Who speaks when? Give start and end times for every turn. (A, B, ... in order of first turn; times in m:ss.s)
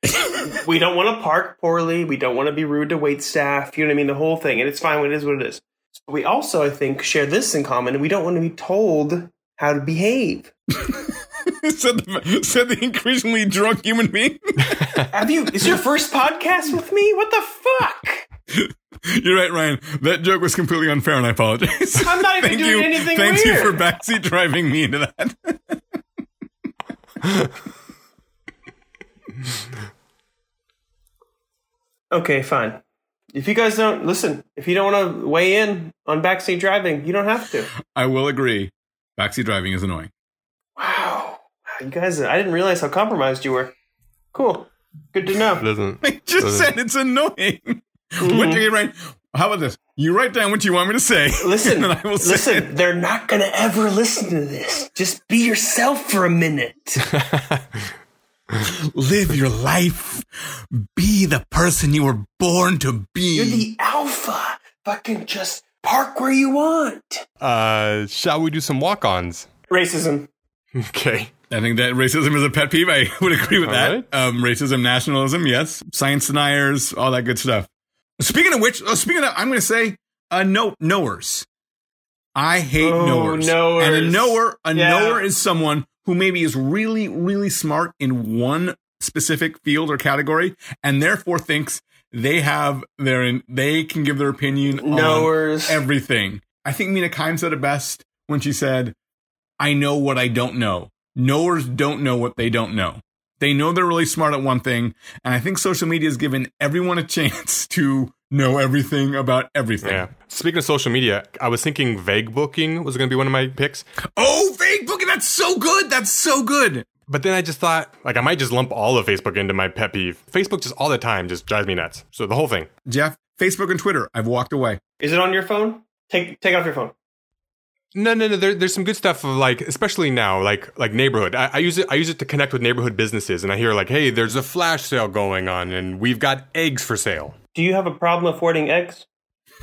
0:00.3-0:10.5 A
0:10.8-0:15.0 B
0:14.7-0:15.0 C
0:15.1-0:18.2 A
0:18.5-0:25.8 B
0:22.0-0:23.8 A
0:32.1-0:32.8 A
0:33.3-0:37.7 A
0:37.9-0:40.1 B
0:40.8-0:43.7 A
0:44.3-0:45.6 A
0:45.6-0:46.7 C
0:46.0-0:52.7 B
0:48.2-0:48.6 A
0:51.4-0:57.1 A
0:57.1-0:57.8 C
0:58.6-1:03.7 B
1:03.3-1:07.2 A
1:07.4-1:09.5 C
1:09.7-1:10.3 A
1:10.7-1:11.3 C
1:11.5-1:17.7 B
1:13.6-1:14.0 C
1:18.2-1:21.5 B
1:22.3-1:38.9 B
1:22.8-1:25.2 A
1:34.8-1:35.8 A
1:39.6-1:50.1 B
1:49.8-1:53.8 C
1:54.2-1:56.9 B
1:57.1-2:02.7 C
2:02.8-2:04.8 B
2:05.0-2:06.9 A
2:07.9-2:17.3 C
2:17.5-2:19.0 A